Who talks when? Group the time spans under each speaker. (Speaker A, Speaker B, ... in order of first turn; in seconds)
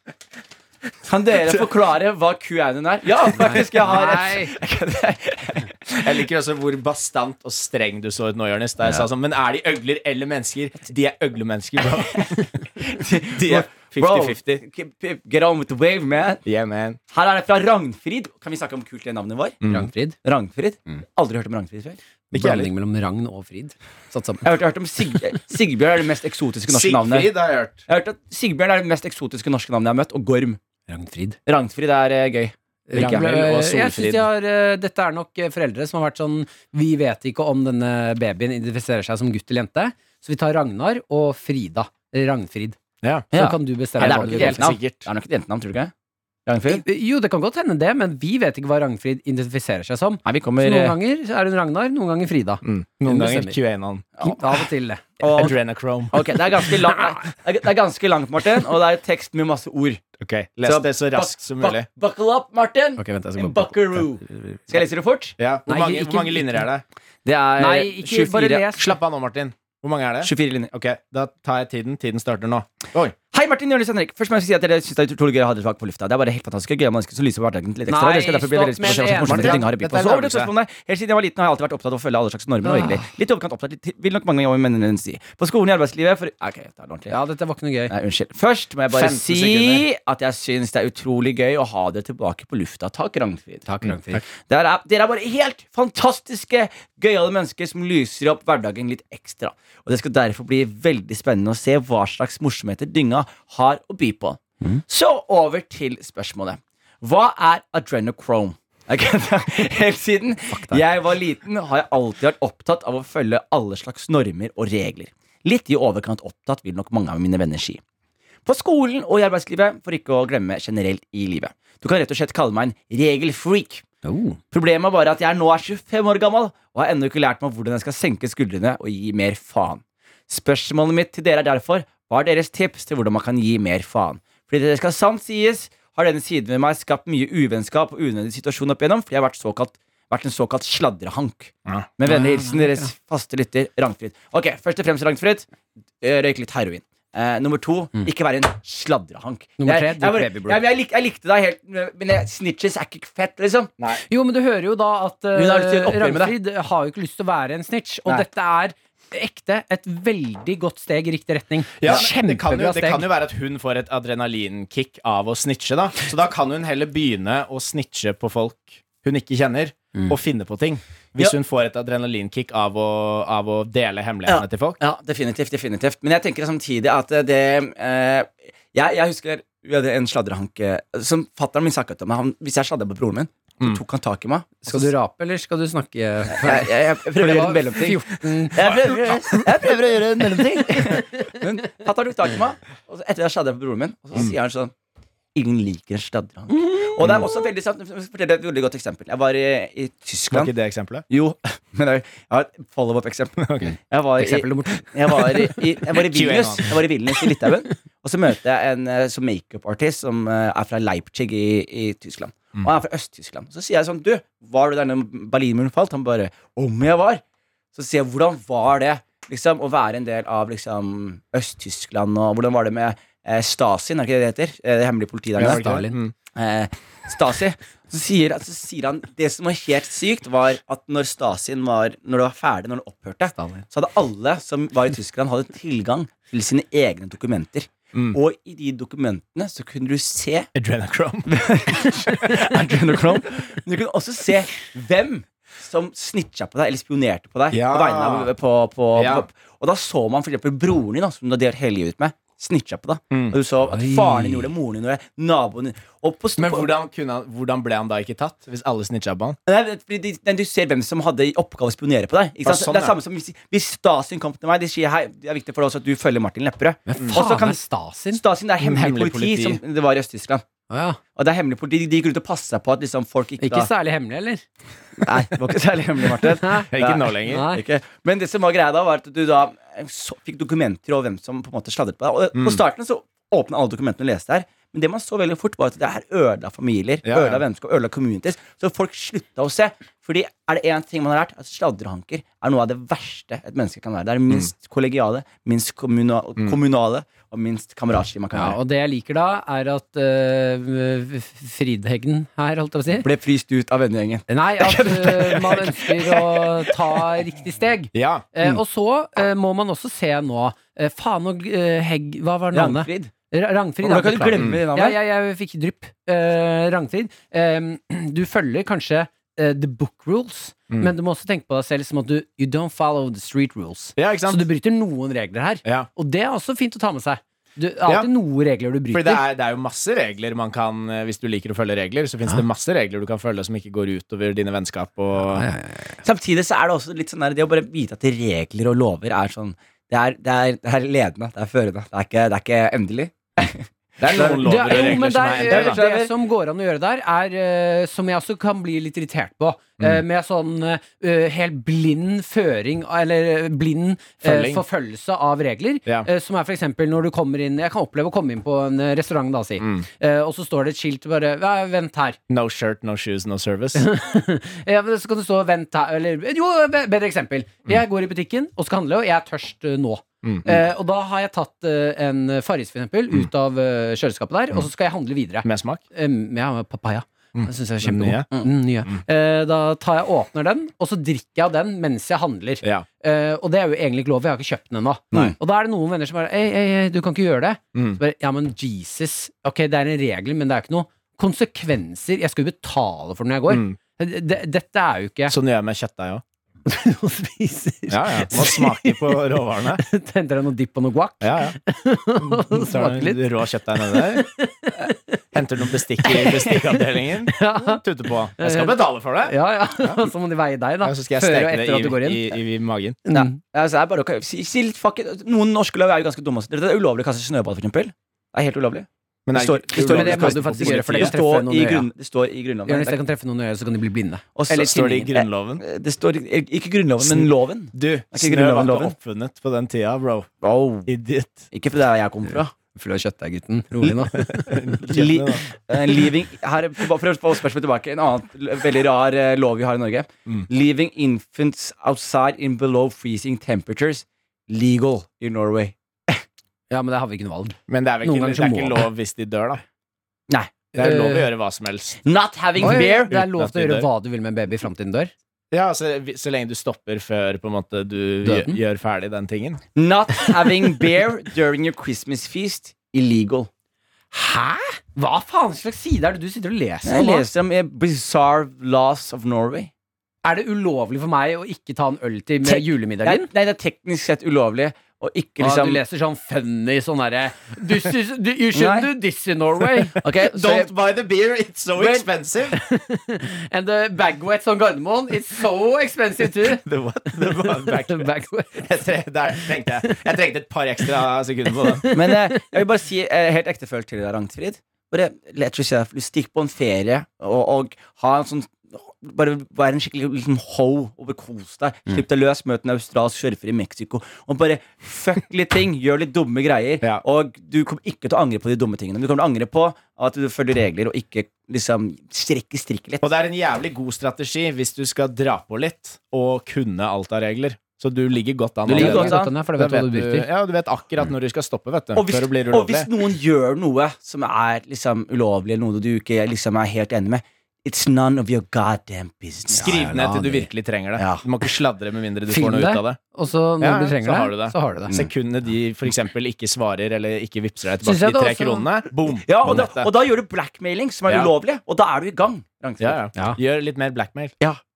Speaker A: 1.1-6.2, 12.8-16.4, 17.1-19.6, 20.2-22.0, 24.4-27.3, 27.9-30.6, 31.5-33.3, 43.3-45.9, 46.5-46.8, 50.2-51.0, 55.2-60.0, 60.6-65.3, 67.2-68.7, 70.2-70.7, 73.3-87.2, 87.9-93.7, 94.5-117.8, 118.5-123.8, 124.5-145.5, 146.0-153.7, 155.3-156.3, 174.3-184.9, 186.3-194.7, 195.3-200.5, 201.1-217.2, 217.8-225.6, 226.3-240.5, 241.3-256.8, 259.5-267.6, 268.1-270.4, 271.1-273.7, 275.0-298.6, 303.0-307.0, 312.5-313.1, 313.8-315.0, 336.0-346.1, 413.1-423.0, 424.4-428.9, 430.4-430.9, 431.5-432.5, 434.8-446.2, 452.0-453.1, 459.8-463.5, 466.9-469.7, 472.5-475.8, 478.5-478.9, 480.0-480.7, 481.8-482.1, 491.9-513.1, 518.7-519.3, 522.0-529.8, 531.0-531.2, 539.2-543.0
Speaker B: 3.4-4.5, 19.7-20.1, 22.3-24.4, 30.9-31.4, 32.9-42.8, 43.3-44.7, 46.7-53.6, 54.2-55.0, 63.0-63.7, 65.7-66.7, 67.6-68.9, 77.9-79.6, 82.6-83.0, 87.1-87.9, 93.7-94.2, 110.5-110.8, 124.0-124.4, 142.1-142.9, 149.6-150.6, 154.0-163.1, 184.7-191.4, 204.2-205.5, 225.4-226.0, 233.4-233.6, 253.7-254.5, 266.9-268.2, 270.7-271.0, 273.4-274.4, 276.4-276.7, 277.3-277.6, 298.3-303.1, 304.3-329.2, 335.3-336.0, 344.1-362.2, 363.8-395.3, 396.6-403.2, 403.8-405.2, 406.0-406.6, 407.3-407.8, 408.4-412.4, 413.1-413.4, 419.8-421.9, 422.7-424.7, 432.7-434.7, 446.7-448.9, 450.8-451.3, 452.6-455.1, 458.2-458.6, 464.1-467.3, 470.2-473.3, 475.4-480.0, 482.5-488.7, 489.4-490.1, 491.6-492.5, 518.7-520.3, 529.5-530.5, 532.3-534.9, 537.8-538.7
Speaker C: 6.0-12.6, 13.3-14.4, 16.4-17.0, 19.6-19.9, 22.3-22.7, 26.7-27.8, 33.0-34.3, 43.0-43.3, 44.0-45.0, 52.6-54.1, 55.2-56.1, 60.2-61.9, 65.4-66.8, 68.8-73.2, 78.8-80.5, 88.9-89.8, 93.8-94.2, 161.8-174.8, 197.0-197.3, 200.3-201.1, 203.4-203.7, 206.0-206.7, 225.4-226.1, 240.6-241.3, 247.5-248.3, 249.0-249.2, 256.4-259.4, 262.4-263.0, 268.6-269.6, 276.7-277.5, 282.4-282.6, 287.0-287.4, 307.9-308.3, 324.0-324.4, 328.9-335.5, 344.0-345.8, 354.2-354.6, 359.6-359.9, 362.3-363.9, 370.2-370.6, 375.4-375.8, 377.4-378.3, 387.7-388.0, 393.5-393.8, 395.3-396.2, 397.9-399.8, 401.2-401.6, 402.2-404.3, 405.3-410.1, 410.8-413.0, 419.3-421.1, 424.5-425.6, 427.0-430.3, 430.9-431.5, 434.1-435.4, 447.7-449.6, 450.7-452.0, 452.6-453.9, 455.5-459.6, 480.0-482.6, 486.3-491.9, 513.0-522.9, 529.6-533.0, 533.6-539.9, 542.8-544.4